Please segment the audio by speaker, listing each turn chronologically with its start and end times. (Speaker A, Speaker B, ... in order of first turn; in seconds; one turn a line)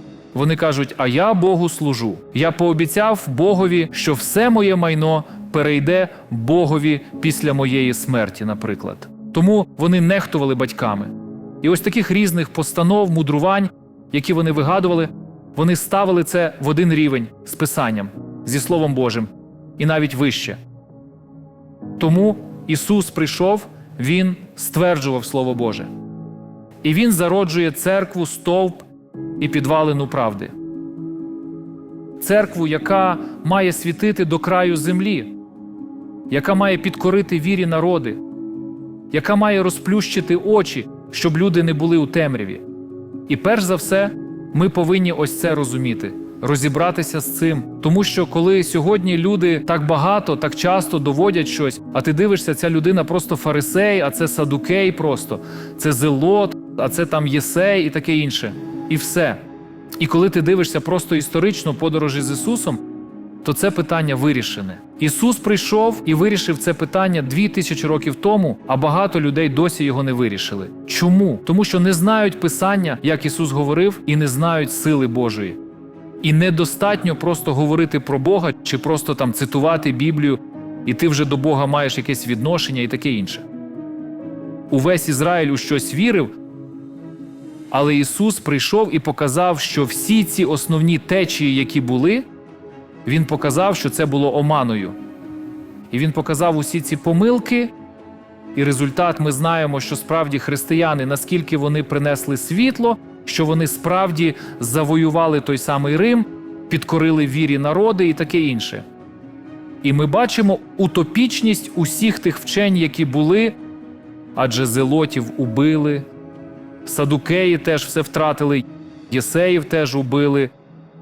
Speaker A: 0.3-20.6
Speaker A: 22.0-25.9
Speaker A: 26.8-28.9
Speaker A: 29.4-30.5
Speaker A: 32.2-35.3
Speaker A: 36.3-38.2
Speaker A: 39.1-42.6
Speaker A: 43.3-59.4
Speaker A: 60.0-62.8
Speaker A: 63.4-75.6
Speaker A: 76.2-83.5
Speaker A: 84.7-86.3
Speaker A: 87.7-92.3
Speaker A: 93.0-95.0
Speaker A: 95.9-97.7
Speaker A: 98.5-108.8
Speaker A: 109.8-113.6
Speaker A: 114.3-116.1
Speaker A: 116.8-120.5